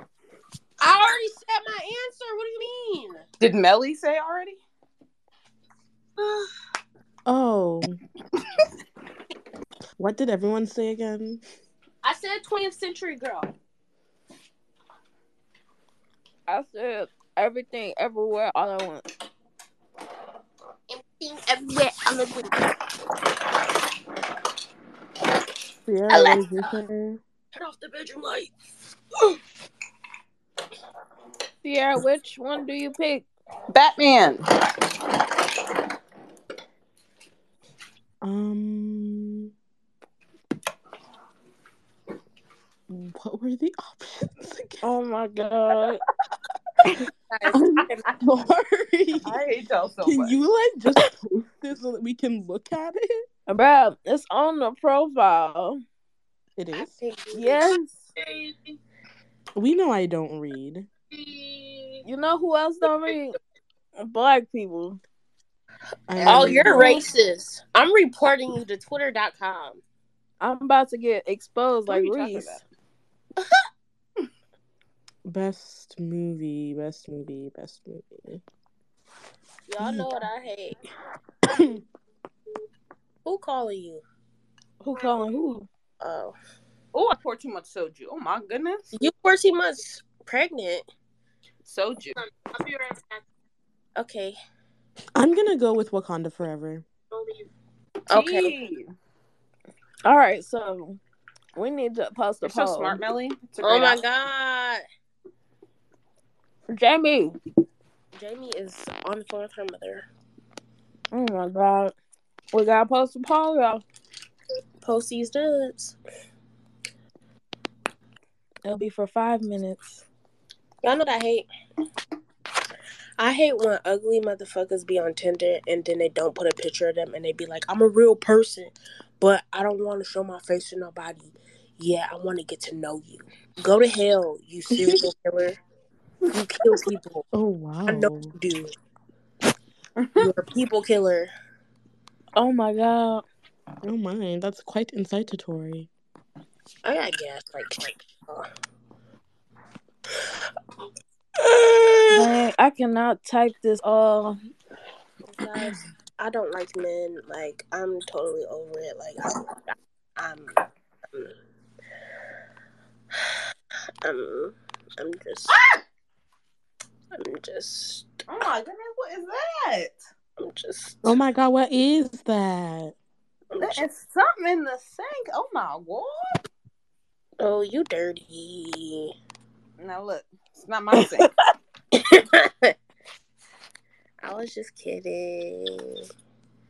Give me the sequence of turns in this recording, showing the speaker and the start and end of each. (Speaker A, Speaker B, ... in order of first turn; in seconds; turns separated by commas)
Speaker A: 0.8-3.2, Speaker B: 3.4-4.6, Speaker A: 6.2-6.5, Speaker C: 7.3-8.0, Speaker C: 10.0-11.4, Speaker A: 12.0-13.5, Speaker D: 16.5-19.1, Speaker A: 20.9-22.6, Speaker C: 25.9-27.2, Speaker A: 26.1-26.5, Speaker A: 27.5-28.5, Speaker D: 31.6-33.3, Speaker B: 33.7-34.4, Speaker C: 38.2-39.5, Speaker C: 42.9-44.8, Speaker D: 44.8-46.0, Speaker A: 47.3-48.0, Speaker C: 48.2-49.4, Speaker B: 49.2-50.4, Speaker C: 50.0-53.1, Speaker D: 53.5-55.8, Speaker C: 56.6-57.0, Speaker A: 57.0-57.7, Speaker D: 57.3-57.9, Speaker E: 58.2-58.6, Speaker C: 59.6-60.9, Speaker E: 61.1-62.0, Speaker D: 62.0-63.4, Speaker D: 64.0-65.0, Speaker C: 66.1-67.0, Speaker A: 66.2-69.8, Speaker D: 66.6-66.9, Speaker D: 70.4-72.6, Speaker B: 71.9-72.6, Speaker C: 75.2-78.4, Speaker A: 79.7-80.8, Speaker C: 79.8-80.1, Speaker C: 81.5-81.8, Speaker A: 83.2-84.0, Speaker D: 84.8-85.7, Speaker A: 86.0-86.3, Speaker B: 86.9-88.9, Speaker A: 88.9-90.9, Speaker B: 91.6-92.2, Speaker E: 92.5-93.1, Speaker A: 94.0-94.4, Speaker C: 95.2-96.8, Speaker E: 97.1-97.4, Speaker A: 98.1-98.5, Speaker B: 98.1-98.9, Speaker D: 100.0-101.0, Speaker D: 101.6-103.0, Speaker B: 102.4-104.0, Speaker A: 103.6-104.8, Speaker D: 106.7-107.4, Speaker A: 108.1-110.1, Speaker D: 111.1-111.9, Speaker D: 112.5-113.8, Speaker A: 114.8-116.0, Speaker D: 118.6-120.0, Speaker A: 120.8-121.5, Speaker A: 123.2-135.6, Speaker A: 136.3-137.2, Speaker C: 137.3-138.3, Speaker A: 137.9-138.7, Speaker B: 140.0-140.3, Speaker A: 140.2-141.3, Speaker D: 142.4-143.2, Speaker C: 143.8-145.9, Speaker A: 146.8-148.5, Speaker A: 151.4-152.2, Speaker D: 152.1-154.4, Speaker A: 155.4-159.4, Speaker A: 160.2-160.6, Speaker A: 164.0-165.6, Speaker B: 165.5-165.8, Speaker A: 167.1-168.1, Speaker B: 168.3-170.0, Speaker A: 170.4-171.2, Speaker C: 171.0-172.9, Speaker A: 173.5-173.8, Speaker B: 173.6-176.4, Speaker A: 177.4-179.1, Speaker B: 179.8-181.3, Speaker A: 181.9-182.7, Speaker A: 184.2-186.1